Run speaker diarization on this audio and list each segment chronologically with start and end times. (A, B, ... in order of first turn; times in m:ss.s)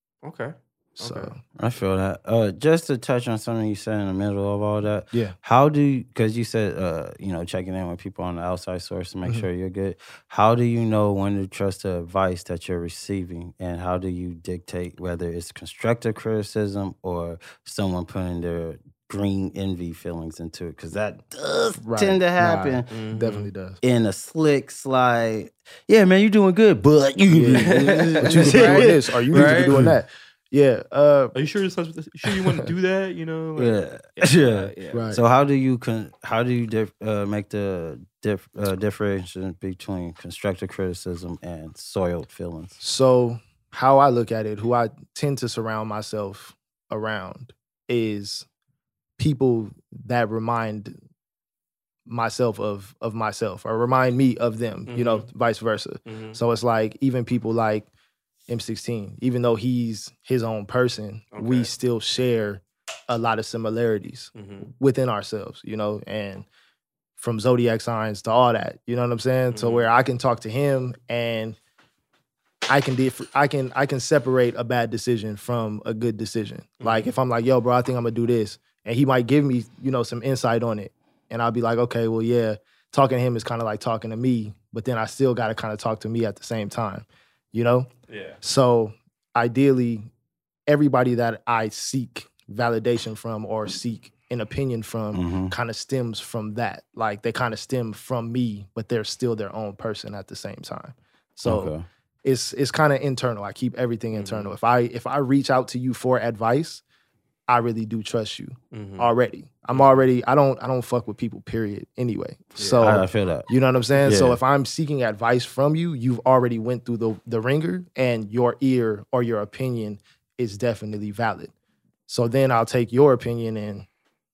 0:00.2-0:01.3 A
0:01.0-0:01.4 B
0:01.6-0:22.9 C
0:21.8-0:23.8 B
0:22.9-0:23.5 A
0:23.8-0:30.0 C
0:27.3-0:31.3 B
0:27.6-0:29.8 A
0:31.3-0:35.2 A
0:32.2-0:32.7 B
0:33.6-0:42.8 C
0:34.9-0:35.2 B
0:42.8-0:48.4 B
0:49.2-0:51.0 B
0:52.1-0:57.9 B
0:54.9-0:55.3 A
0:56.0-0:56.4 A
0:58.5-1:06.4 B
1:01.3-1:01.7 A
1:04.3-1:04.7 A
1:07.2-1:11.6 B
1:09.5-1:09.9 A
1:12.7-1:27.9 B
1:16.8-1:17.1 A
1:28.1-1:28.4 A
1:28.4-1:30.1 B
1:30.7-1:41.7 B
1:35.1-1:35.5 C
1:41.4-1:41.8 C
1:42.2-1:46.8 B
1:44.1-1:44.5 A
1:47.5-2:01.5 B
1:48.7-1:49.1 A
1:49.7-1:50.0 A
1:52.6-1:52.8 A
1:52.8-1:53.5 C
1:54.0-1:54.4 C
2:02.1-2:03.9 B